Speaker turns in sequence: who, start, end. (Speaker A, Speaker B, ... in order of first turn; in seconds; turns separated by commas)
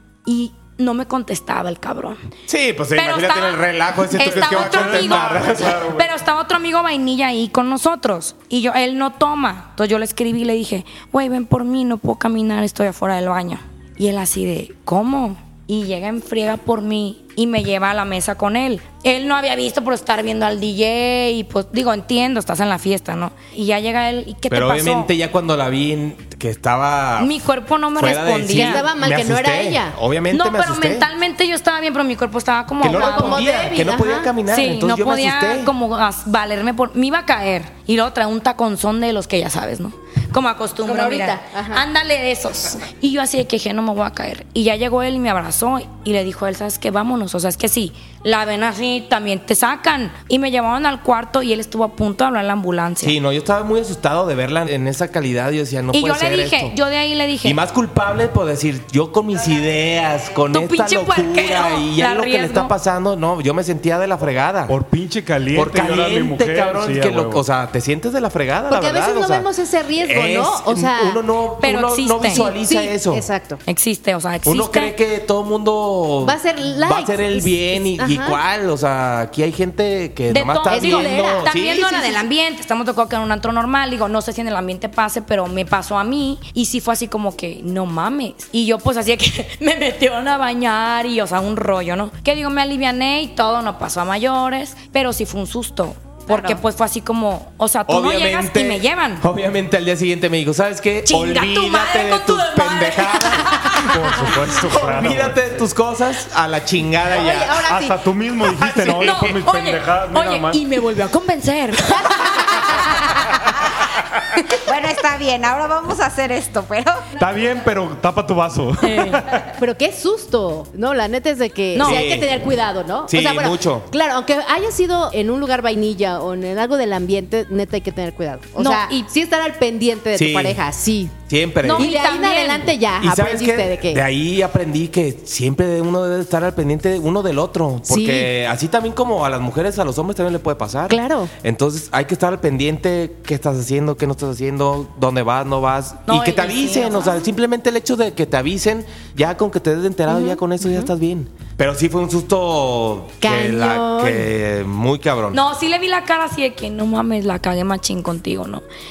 Speaker A: 0.3-2.2, Speaker B: 2.5-5.9, Speaker A: 2.9-25.1, Speaker C: 4.2-6.1, Speaker B: 24.5-27.4, Speaker A: 27.2-28.9, Speaker B: 27.9-31.1, Speaker D: 28.5-30.0, Speaker A: 30.3-33.5, Speaker B: 32.8-35.7, Speaker D: 32.9-34.3, Speaker A: 34.5-53.2, Speaker D: 40.8-41.8, Speaker B: 53.0-56.8, Speaker A: 55.9-57.6, Speaker B: 57.4-64.8, Speaker A: 60.5-62.7, Speaker C: 64.7-67.4, Speaker B: 65.5-69.5, Speaker D: 68.7-71.2, Speaker B: 70.0-73.2, Speaker A: 71.6-72.5, Speaker D: 72.3-73.6, Speaker A: 73.7-75.0, Speaker B: 74.5-82.2, Speaker D: 76.2-78.4, Speaker A: 80.3-99.2, Speaker D: 80.7-81.5, Speaker E: 96.3-96.6, Speaker B: 97.9-107.7, Speaker A: 101.1-103.9, Speaker C: 103.7-105.4, Speaker D: 107.1-108.1, Speaker C: 107.6-110.6, Speaker B: 108.5-109.3, Speaker A: 109.0-112.9, Speaker E: 114.7-117.1, Speaker C: 117.2-119.6, Speaker A: 118.8-119.2, Speaker D: 119.6-131.2, Speaker A: 121.7-122.1, Speaker B: 121.8-122.5, Speaker B: 123.1-123.9, Speaker A: 128.6-129.1, Speaker B: 130.1-130.6, Speaker B: 131.3-131.9, Speaker A: 131.7-132.8, Speaker D: 131.7-134.1, Speaker B: 133.0-155.4, Speaker D: 137.9-138.3, Speaker D: 140.9-141.3, Speaker A: 146.1-147.2, Speaker D: 150.1-150.4, Speaker D: 153.2-154.3, Speaker A: 155.3-158.6